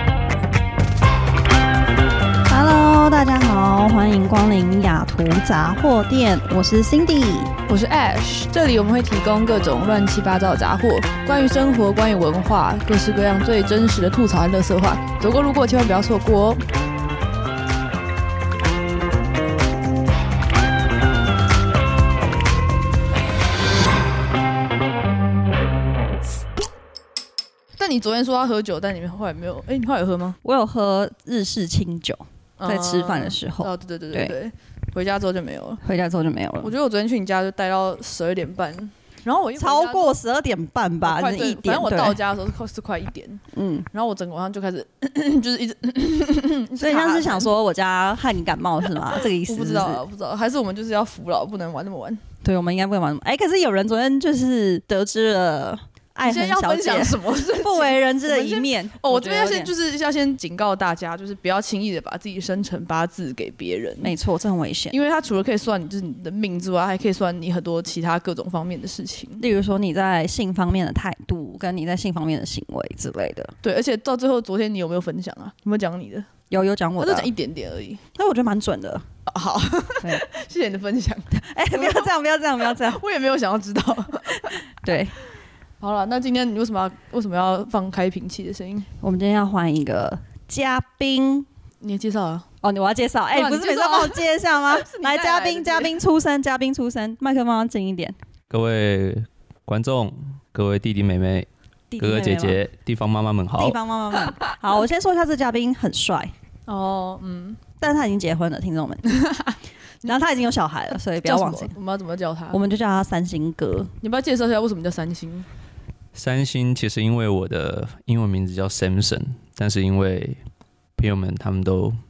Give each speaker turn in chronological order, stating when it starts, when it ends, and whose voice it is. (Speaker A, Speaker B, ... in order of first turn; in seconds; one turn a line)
Speaker A: 2.5-7.5
Speaker B: 7.7-16.6
Speaker B: 27.8-30.4
Speaker A: 30.4-34.4
Speaker B: 32.6-35.8
Speaker A: 35.8-36.7
Speaker B: 36.6-40.2
Speaker A: 39.6-42.2
Speaker B: 41.0-47.5
Speaker A: 43.5-43.9
Speaker A: 46.8-50.0
Speaker B: 49.0-52.2
Speaker A: 52.4-59.7
Speaker B: 56.2-64.2
Speaker A: 64.0-65.0
Speaker B: 64.9-69.4
Speaker A: 69.4-73.5
Speaker B: 73.6-76.3
Speaker A: 76.5-77.3
Speaker B: 77.0-78.0
Speaker A: 78.1-79.0
Speaker B: 79.3-84.6
Speaker A: 81.3-83.0
Speaker A: 84.4-85.2
Speaker B: 85.8-88.9
Speaker A: 89.0-91.5
Speaker B: 91.8-92.5
Speaker A: 92.6-98.2
Speaker B: 93.3-96.0
Speaker C: 98.5-101.5
Speaker A: 101.9-102.6
Speaker C: 102.0-103.8
Speaker A: 103.6-106.3
Speaker B: 106.7-107.6
Speaker A: 107.8-109.1
Speaker B: 109.1-109.5
Speaker A: 110.0-111.7
Speaker B: 111.2-112.6
Speaker A: 112.5-113.9
Speaker B: 114.0-115.5
Speaker C: 116.2-120.4
Speaker C: 121.0-122.0